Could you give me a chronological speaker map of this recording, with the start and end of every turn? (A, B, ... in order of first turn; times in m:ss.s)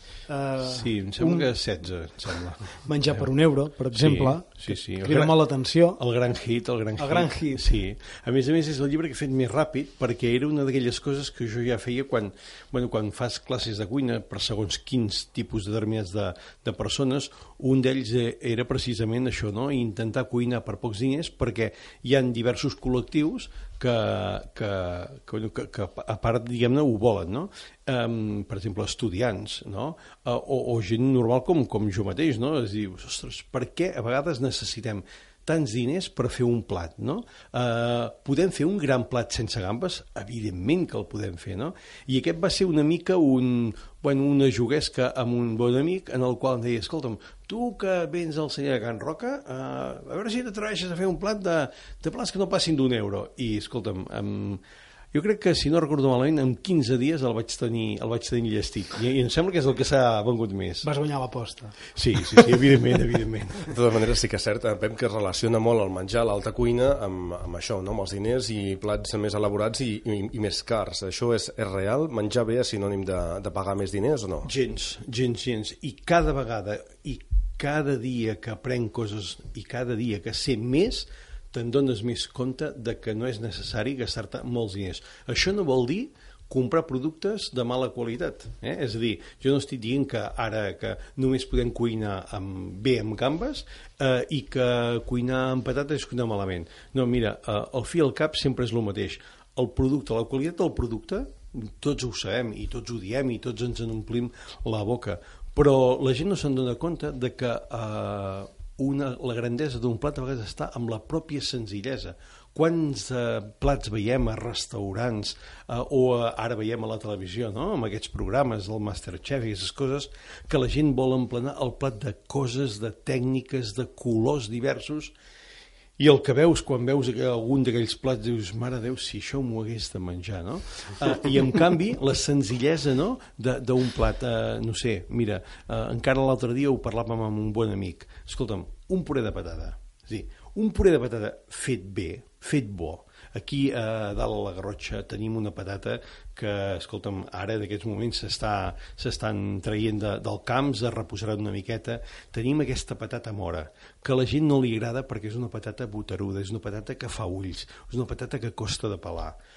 0:00.3-0:01.4 A
0:00.6-0:03.2 B
0:02.9-0:06.0 A
0:03.9-0:05.4 B
0:05.9-1:00.9 B
0:07.0-0:07.6 A
1:00.8-1:01.8 A
1:01.9-1:03.7 B
1:03.7-1:14.5 C
1:14.4-2:05.1 B
2:06.0-2:39.4 B